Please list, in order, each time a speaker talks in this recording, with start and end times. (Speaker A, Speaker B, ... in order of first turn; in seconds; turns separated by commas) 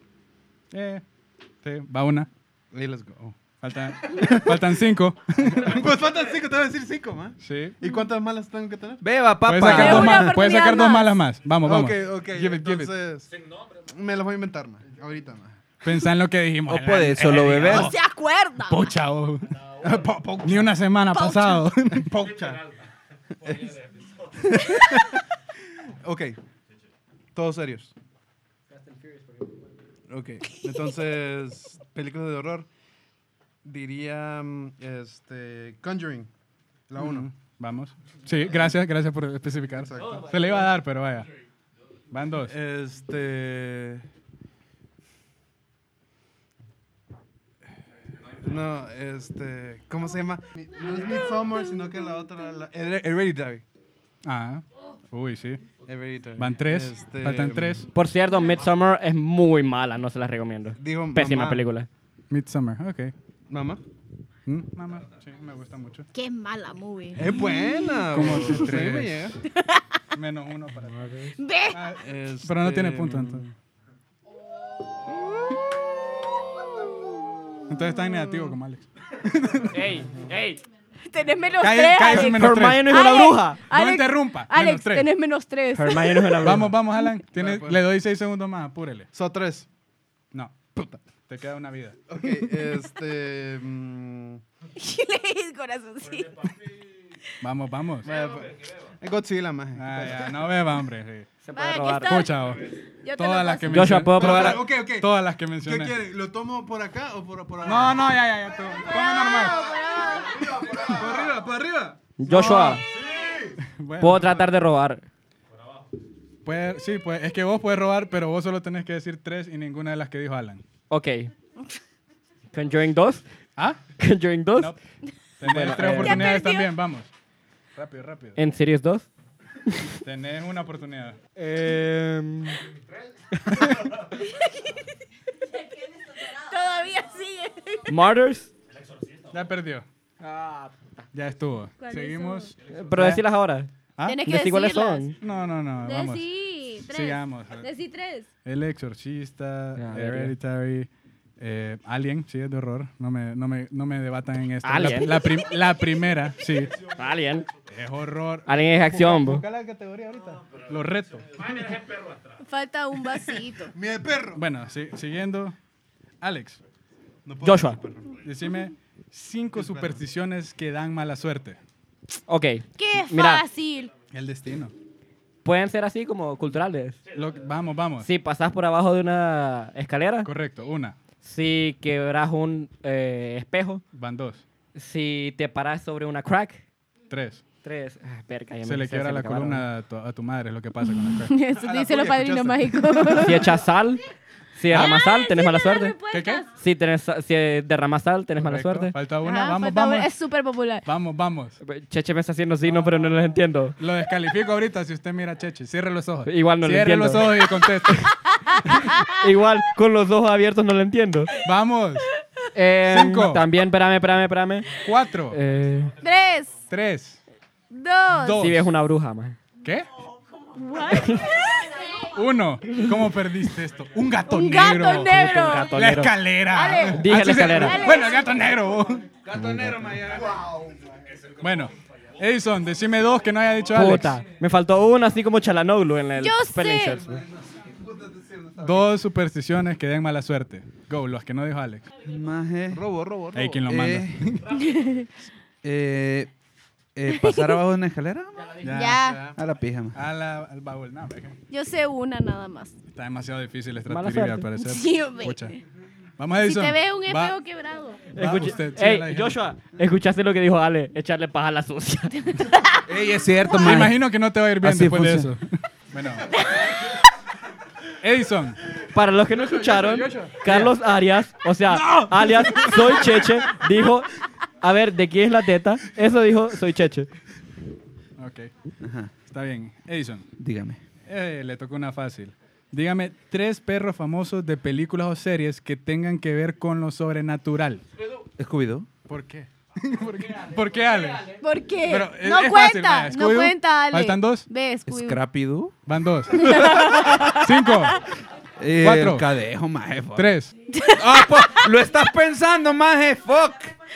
Speaker A: 0.7-1.0, Speaker A: 1.6-2.3, Speaker B: 2.7-3.4, Speaker A: 3.6-5.8, Speaker B: 4.0-4.7, Speaker B: 5.4-9.0, Speaker A: 7.4-7.8, Speaker C: 9.0-10.3, Speaker A: 9.4-12.9, Speaker D: 9.6-11.2, Speaker B: 11.6-13.3, Speaker B: 13.9-15.6, Speaker A: 15.8-17.9, Speaker C: 16.7-17.9, Speaker D: 17.7-18.9, Speaker A: 18.6-19.5, Speaker B: 19.8-20.7, Speaker A: 20.4-22.1, Speaker D: 21.1-21.7, Speaker B: 21.9-22.7, Speaker B: 23.4-25.2, Speaker B: 25.8-26.4, Speaker B: 27.3-27.9, Speaker B: 30.1-32.7, Speaker B: 33.6-36.3, Speaker B: 36.9-37.3, Speaker A: 37.0-41.3, Speaker B: 39.7-40.6, Speaker A: 42.1-42.5, Speaker B: 42.4-44.0, Speaker B: 48.4-53.6, Speaker A: 54.2-55.6, Speaker B: 55.8-57.9, Speaker A: 56.4-57.9, Speaker E: 57.9-61.9, Speaker B: 60.8-61.6, Speaker A: 62.3-63.1, Speaker B: 63.5-63.8, Speaker A: 64.5-66.1, Speaker D: 66.1-67.8, Speaker B: 67.1-69.4, Speaker A: 68.1-69.3, Speaker D: 69.5-70.0, Speaker A: 70.1-71.1, Speaker E: 71.0-71.2, Speaker D: 71.4-71.8, Speaker A: 71.7-73.5, Speaker B: 72.0-73.5, Speaker A: 77.7-79.7, Speaker E: 79.7-80.6, Speaker D: 81.0-86.6, Speaker A: 81.6-82.9, Speaker E: 82.1-83.6, Speaker A: 83.7-85.1, Speaker E: 85.7-86.7, Speaker A: 86.4-89.1, Speaker B: 87.3-87.8, Speaker B: 89.1-89.7, Speaker A: 90.3-90.7, Speaker A: 91.2-92.0, Speaker B: 92.1-94.4, Speaker D: 94.8-96.5, Speaker A: 97.4-98.1, Speaker B: 98.0-100.5, Speaker A: 99.7-101.3, Speaker E: 101.4-102.2, Speaker D: 101.5-102.4, Speaker A: 102.0-105.9, Speaker D: 103.0-104.0, Speaker E: 103.7-104.6, Speaker B: 104.1-108.1, Speaker A: 107.6-109.6, Speaker D: 108.9-110.5, Speaker B: 110.5-112.0, Speaker E: 112.2-112.8, Speaker A: 112.2-112.8, Speaker B: 113.1-113.4, Speaker A: 113.6-114.5, Speaker E: 114.0-115.0, Speaker A: 116.4-120.6, Speaker E: 120.9-121.3, Speaker E: 122.5-123.2, Speaker E: 124.0-124.7, Speaker A: 125.4-127.1, Speaker E: 125.4-126.3, Speaker D: 125.8-126.7, Speaker A: 127.8-128.4, Speaker E: 128.3-129.1, Speaker A: 130.0-131.2, Speaker E: 131.3-132.6, Speaker D: 134.2-134.8, Speaker D: 136.3-137.8, Speaker E: 137.9-138.5, Speaker A: 139.3-139.8, Speaker E: 140.2-140.7, Speaker A: 141.1-143.2, Speaker D: 141.8-142.5, Speaker E: 142.7-143.7, Speaker D: 144.0-145.1, Speaker E: 144.2-145.1, Speaker A: 145.2-146.2, Speaker D: 145.8-148.3, Speaker A: 146.9-147.7, Speaker A: 148.4-150.9, Speaker E: 149.8-150.3, Speaker A: 151.4-156.7, Speaker E: 154.6-155.3, Speaker E: 156.9-157.5, Speaker A: 157.7-161.3, Speaker E: 158.5-159.4, Speaker D: 162.4-163.7, Speaker B: 163.6-164.4, Speaker A: 164.3-165.6, Speaker A: 166.2-166.6, Speaker B: 167.2-168.1, Speaker E: 167.4-167.8, Speaker A: 168.2-171.6, Speaker B: 169.5-170.0, Speaker E: 172.3-173.4, Speaker D: 172.8-173.9, Speaker A: 174.1-174.7, Speaker E: 175.4-177.0, Speaker A: 177.1-178.1, Speaker E: 178.0-180.3, Speaker A: 180.2-180.9, Speaker E: 181.2-183.8, Speaker A: 183.9-184.4, Speaker E: 184.7-186.6, Speaker A: 187.1-187.4, Speaker E: 187.6-189.7, Speaker A: 188.6-191.3, Speaker D: 191.2-193.5, Speaker B: 191.5-193.4, Speaker E: 193.2-194.0, Speaker E: 194.6-195.9, Speaker A: 194.7-194.9, Speaker D: 194.7-196.5, Speaker A: 196.1-196.4, Speaker E: 196.6-198.9, Speaker A: 198.4-200.1, Speaker D: 199.2-200.8, Speaker A: 200.8-201.6, Speaker E: 201.6-203.8, Speaker A: 203.8-208.1, Speaker E: 206.2-207.4, Speaker D: 208.6-209.1, Speaker E: 209.2-211.3, Speaker A: 211.4-212.1, Speaker E: 212.5-214.7, Speaker A: 212.9-213.4, Speaker A: 214.8-215.4, Speaker E: 215.3-215.9, Speaker D: 216.0-216.5, Speaker A: 216.7-217.2, Speaker D: 217.7-218.4, Speaker A: 218.2-218.6, Speaker E: 218.4-219.4, Speaker D: 220.5-221.8, Speaker A: 222.1-229.0, Speaker D: 224.3-225.7, Speaker E: 225.1-226.1, Speaker D: 226.5-228.3, Speaker E: 226.9-228.0, Speaker C: 229.2-230.6, Speaker A: 231.4-234.2, Speaker E: 233.7-237.2, Speaker D: 236.2-237.1, Speaker A: 238.6-241.9, Speaker C: 242.0-242.8, Speaker B: 242.7-243.6, Speaker A: 243.3-244.4, Speaker C: 243.6-244.2, Speaker D: 244.6-245.1, Speaker C: 245.6-246.3, Speaker C: 246.9-248.5, Speaker D: 247.1-247.6, Speaker A: 248.6-249.0, Speaker D: 248.7-249.3, Speaker B: 248.9-249.4, Speaker C: 249.3-249.9, Speaker A: 249.9-251.3, Speaker D: 251.5-252.7, Speaker A: 252.9-255.6, Speaker E: 253.9-254.4, Speaker D: 254.6-255.6, Speaker A: 256.2-257.4, Speaker D: 256.4-258.0, Speaker E: 258.1-262.3, Speaker A: 258.2-259.4, Speaker D: 262.2-262.9, Speaker C: 262.9-264.0, Speaker A: 263.5-266.3, Speaker C: 264.6-265.3, Speaker A: 268.0-268.6, Speaker E: 268.9-274.1, Speaker A: 269.6-270.7, Speaker A: 271.9-272.8, Speaker E: 274.6-277.1, Speaker A: 278.2-278.5, Speaker C: 278.8-279.1, Speaker A: 279.3-280.3, Speaker C: 280.4-280.8, Speaker A: 281.0-287.8, Speaker C: 288.4-288.9, Speaker A: 289.1-294.5, Speaker D: 291.4-295.2, Speaker C: 294.9-295.7, Speaker A: 295.9-296.7, Speaker D: 296.3-297.9, Speaker A: 297.3-297.9, Speaker C: 298.6-300.3, Speaker A: 298.8-299.2, Speaker A: 300.1-300.5, Speaker D: 300.7-301.7, Speaker C: 301.0-303.7